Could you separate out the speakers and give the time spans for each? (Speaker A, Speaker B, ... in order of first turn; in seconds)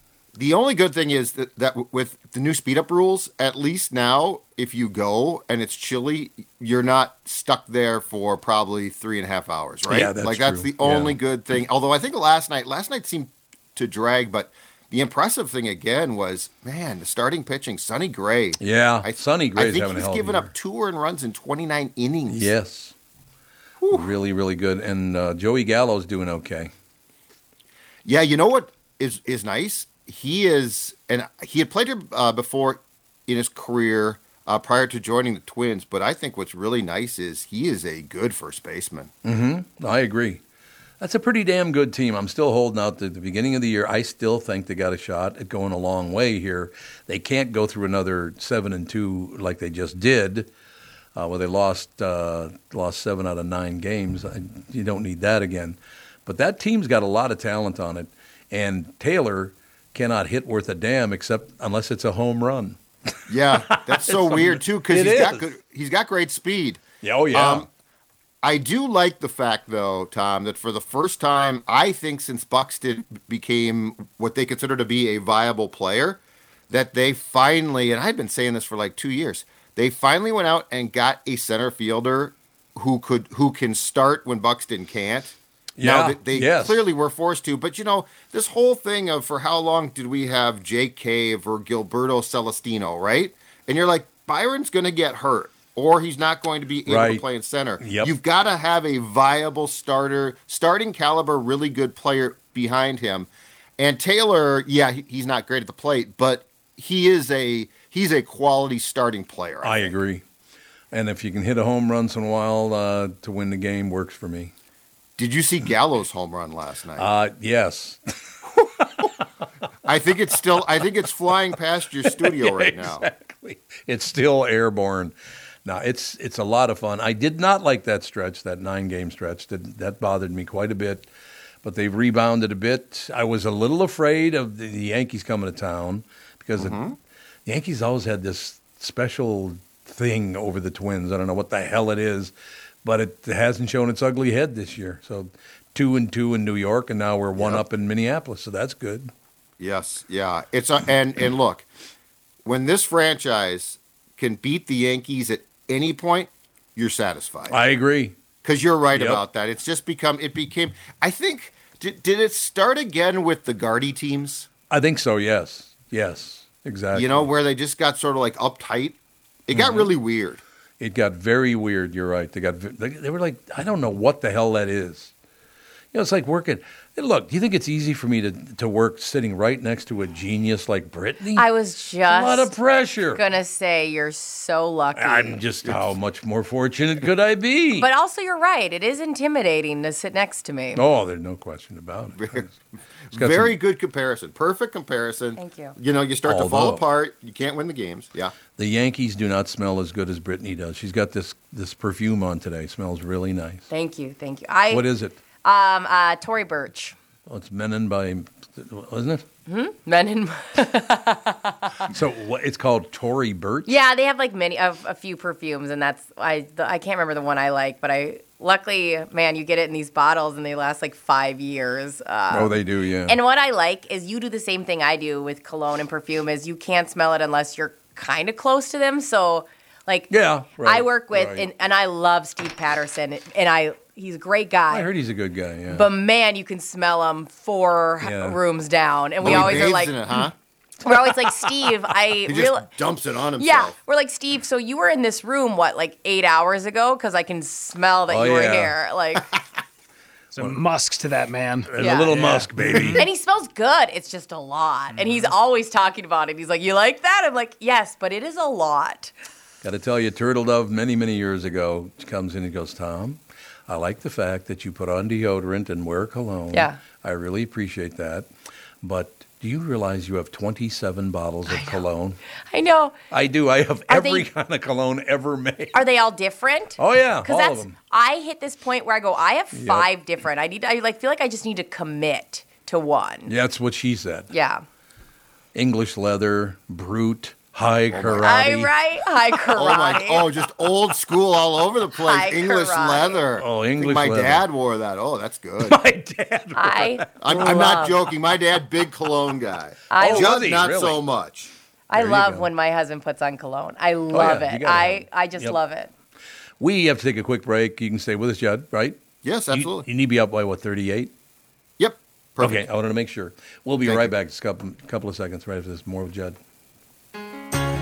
Speaker A: 0.3-22.5, 23.8-24.1, 28.1-39.1, 63.3-67.7, 68.4-109.9, 115.2-117.1, 119.8-123.1, 136.6-136.9, 147.4-147.7, 149.6-151.7, 152.4-157.6, 158.4-164.5, 166.9-170.4, 192.2-192.4, 193.1-198.3, 239.2-240.3, 242.3-243.8, 287.9-288.3, 289.6-295.8, 297.2-301.5, 309.2-309.9, 311.8-312.6, 313.8-314.1
Speaker B: 9.9-11.2, 18.6-20.5, 22.3-22.9, 23.9-26.7, 39.2-40.4, 41.0-50.5, 51.2-62.8, 63.5-65.5, 67.0-67.7, 85.8-86.8, 96.9-97.2, 97.8-98.1, 109.6-110.2, 110.9-114.5, 117.0-119.1, 122.1-125.1, 125.7-131.1, 131.6-136.8, 137.5-142.3, 142.8-149.1, 157.5-158.2, 158.9-159.2, 164.7-167.3, 169.5-169.9, 170.8-175.1, 175.9-181.4, 182.1-183.2, 185.0-187.9, 190.8-192.5, 193.1-193.5, 196.3-196.8, 198.6-203.7, 204.7-205.2, 207.3-209.2, 211.9-213.8, 222.3-223.2, 230.1-231.5, 234.7-235.9, 238.0-238.4, 239.2-239.7, 248.1-248.7, 251.7-253.1, 259.6-268.3, 268.8-272.2, 273.1-275.8, 276.8-277.7, 279.5-279.9, 283.3-284.3, 285.6-288.7, 293.4-294.4, 295.6-297.7, 300.0-301.0, 301.9-302.5, 304.1-305.6, 306.6-309.0, 309.5-311.1, 312.4-316.4
Speaker C: 181.4-182.5, 183.2-185.4, 187.8-190.8, 195.4-195.8, 203.7-204.8, 205.4-206.9, 209.5-211.8, 213.7-222.6, 223.1-234.9, 235.7-240.0, 240.8-242.7, 243.4-249.3, 251.8-252.1, 252.9-259.1, 266.5-266.8, 271.5-271.8, 272.5-273.0, 273.9-274.3, 275.7-283.3, 284.3-284.6, 288.2-290.3, 292.0-293.2, 296.6-298.0, 299.9-300.4, 301.9-305.9
Speaker D: 250.3-253.1